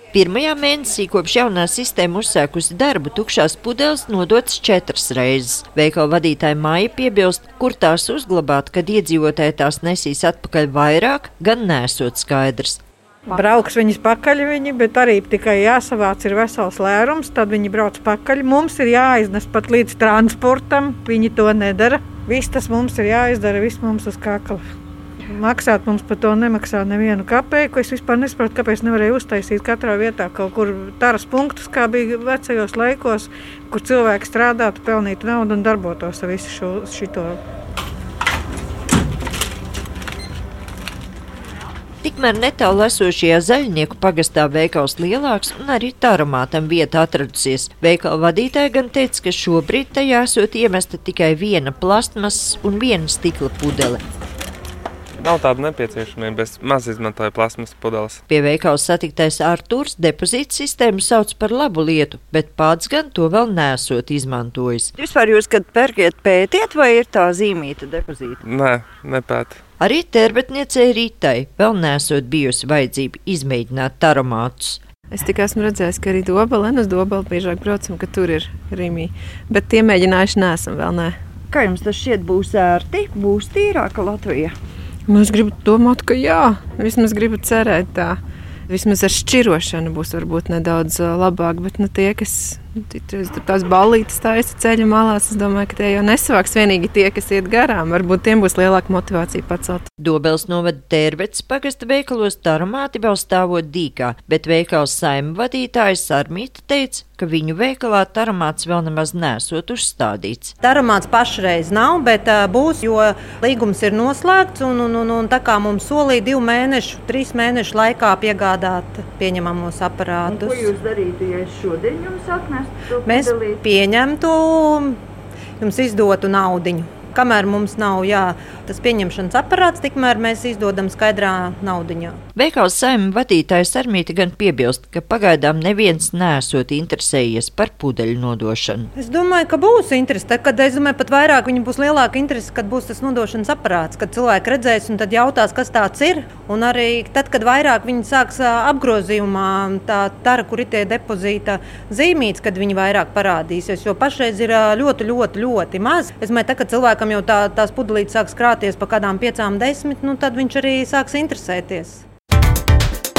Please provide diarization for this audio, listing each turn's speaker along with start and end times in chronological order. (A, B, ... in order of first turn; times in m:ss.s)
0:00.1-0:12.8 A
0:13.3-0:24.6 B
0:25.3-0:37.4 B
0:42.0-0:54.0 A
0:55.2-0:58.2 C
0:58.3-1:05.0 A
1:05.1-1:08.0 D
1:08.4-1:09.6 C
1:09.8-1:14.8 A
1:15.1-1:21.2 E
1:21.5-1:24.5 A
1:25.1-1:39.8 E
1:40.0-1:50.5 A
1:50.6-2:00.2 F
2:00.3-2:01.9 D
2:02.9-2:03.6 D
2:04.0-2:05.0 F
2:05.6-2:12.2 F
2:12.3-2:18.9 A
2:19.0-2:42.0 F